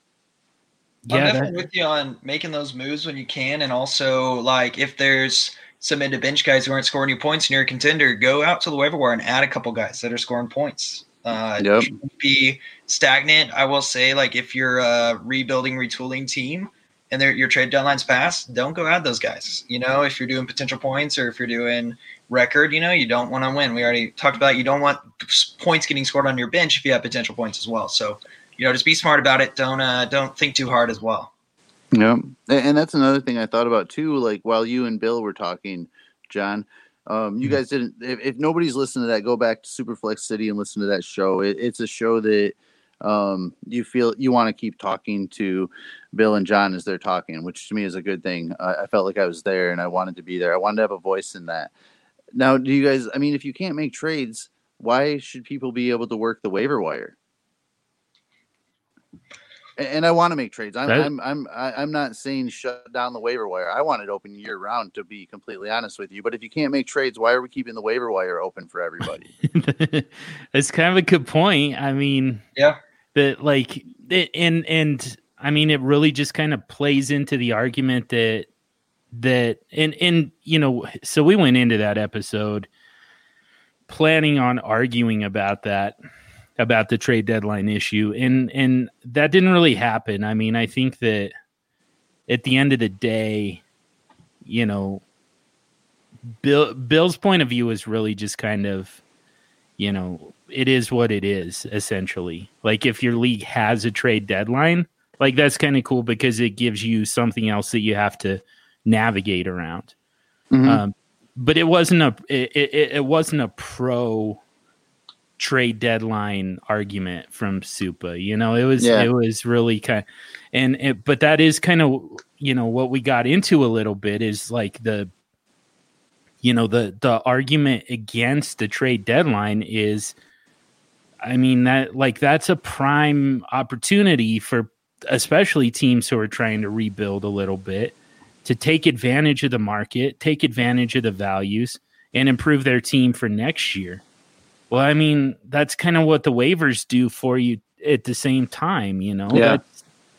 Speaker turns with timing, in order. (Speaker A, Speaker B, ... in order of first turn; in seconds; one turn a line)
Speaker A: 1.1-1.5
Speaker B: 1.1-31.3
Speaker C: 11.6-11.9
Speaker C: 31.9-51.7
Speaker C: 52.4-57.2
Speaker C: 59.8-69.3
Speaker A: 69.4-72.4
Speaker A: 73.2-78.5
Speaker A: 79.1-82.7
Speaker A: 83.9-86.0
Speaker A: 86.6-91.3
Speaker A: 92.3-93.6
Speaker A: 94.4-95.0
Speaker A: 96.4-99.0
Speaker A: 99.8-109.9
Speaker C: 110.5-110.8
Speaker A: 110.7-114.4
Speaker A: 115.4-125.1
Speaker C: 118.8-119.1
Speaker A: 126.4-130.1
Speaker A: 131.2-144.0
Speaker A: 144.7-149.7
Speaker C: 149.3-149.6